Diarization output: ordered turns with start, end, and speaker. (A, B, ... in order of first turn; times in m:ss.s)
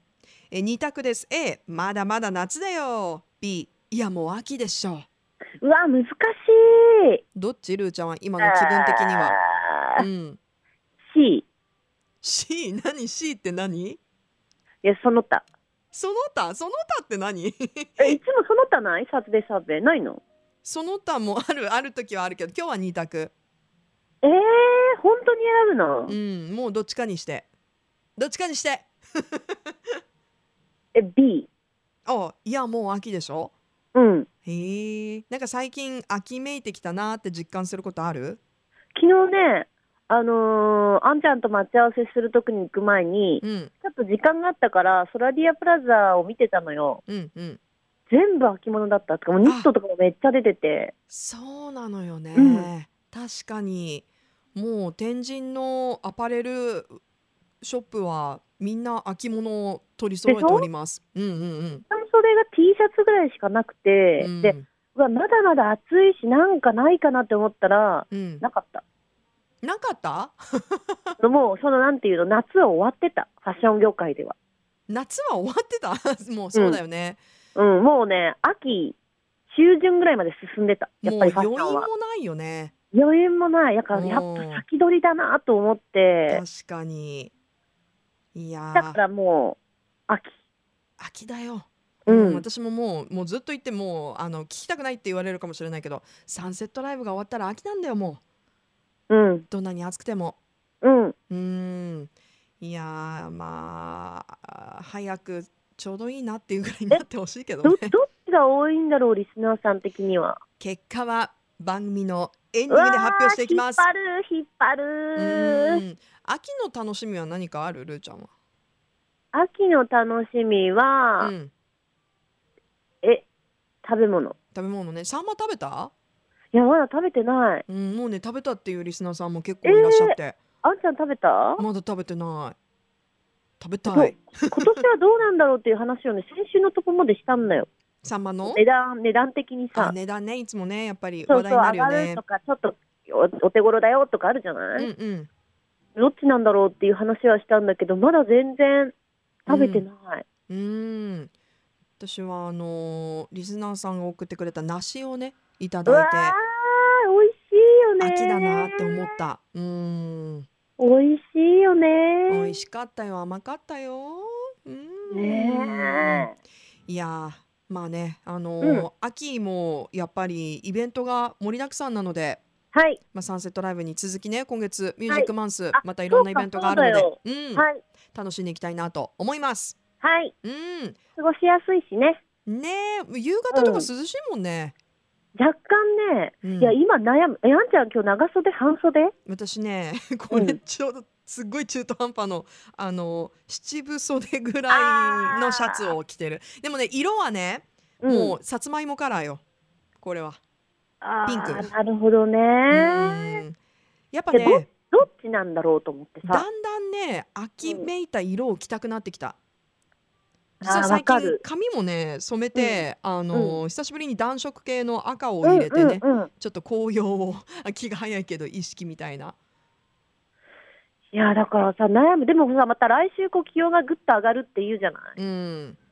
0:00.5-0:05.1 A
0:05.6-0:07.2 B
0:07.4-0:09.4 A
0:08.4-0:10.1 B
0:10.0-0:10.4 A
0:11.1-0:11.5 B
0:12.2-0:14.0 A
0:14.8-0:15.4 B
0:15.9-0:18.2 A
0:18.0-0:20.2 B
0:20.6-0:23.3 A
0:24.2-0:26.2 B
0:26.1-0:27.5 A
0:28.2-0:29.7 A
0:30.9-0:31.5 B
0:32.1-0:33.5 A
0:34.0-0:34.3 B
0:34.5-0:38.4 A
0:39.0-0:47.0 B
0:43.4-0:43.7 A
0:47.1-0:47.6 A
0:48.1-0:50.9 B
0:49.4-0:49.7 A
0:51.1-0:57.0 A
0:52.4-0:52.7 B
0:57.6-1:01.8 A
1:00.3-1:00.7 B
1:01.9-1:08.8 B
1:04.2-1:04.7 A
1:08.1-1:08.4 A
1:09.6-1:11.0 A
1:11.2-1:14.4 B
1:14.9-1:17.2 A
1:16.5-1:16.8 B
1:17.6-1:19.0 B
1:19.5-1:21.9 B
1:21.0-1:22.7 A
1:22.9-1:26.4 B
1:23.9-1:24.6 A
1:26.3-1:27.3 A
1:28.3-1:29.0 A
1:28.7-1:29.6 B
1:30.1-1:30.3 B
1:31.0-1:38.2 A
1:32.1-1:32.4 B
1:39.1-1:39.5 B
1:39.5-1:40.4 A
1:40.8-1:41.2 B
1:41.3-1:47.9 A
1:47.6-1:50.4 B
1:50.6-1:53.9 A
1:52.7-1:55.8 B
1:55.2-1:58.3 A
1:59.3-2:01.3 B
2:01.2-2:01.5 A
2:03.8-2:04.4 B
2:04.5-2:05.9 A
2:06.5-2:07.6 B
2:07.7-2:10.4 A
2:09.6-2:11.6 B
2:11.6-2:12.6 A
2:13.6-2:14.8 A
2:13.9-2:17.7 B
2:18.0-2:18.6 A
2:18.5-2:20.0 B
2:19.8-2:22.2 A
2:21.3-2:24.9 B
2:24.8-2:25.3 A
2:26.0-2:28.9 B
2:29.5-2:30.2 B
2:29.5-2:29.9 A
2:30.5-2:31.3 A
2:32.0-2:36.4 A
2:35.9-2:39.1 B
2:38.0-2:40.5 A
2:40.8-2:42.5 B
2:42.3-2:46.3 A
2:45.1-2:46.3 B
2:46.9-2:52.4 A
2:48.6-2:48.9 B
2:52.7-2:53.0 B
2:53.1-2:59.8 A
2:55.1-2:57.8 B
3:00.0-3:00.3 B
3:00.4-3:01.0 A
3:01.2-3:02.2 B
3:02.5-3:04.8 A
3:03.5-3:03.9 B
3:05.4-3:09.1 B
3:06.4-3:06.8 A
3:09.3-3:19.4 A
3:10.3-3:10.6 B
3:14.7-3:15.9 B
3:18.0-3:18.4 B
3:20.0-3:20.4 A
3:21.0-3:23.4 B
3:21.3-3:21.7 A
3:22.7-3:23.6 A
3:24.1-3:24.7 A
3:24.3-3:26.4 B
3:26.2-3:29.4 A
3:27.6-3:27.9 B
3:30.6-3:31.4 B
3:30.6-3:39.4 A
3:32.6-3:33.6 B
3:35.4-3:36.3 B
3:41.1-3:45.2 B
3:45.2-3:45.8 A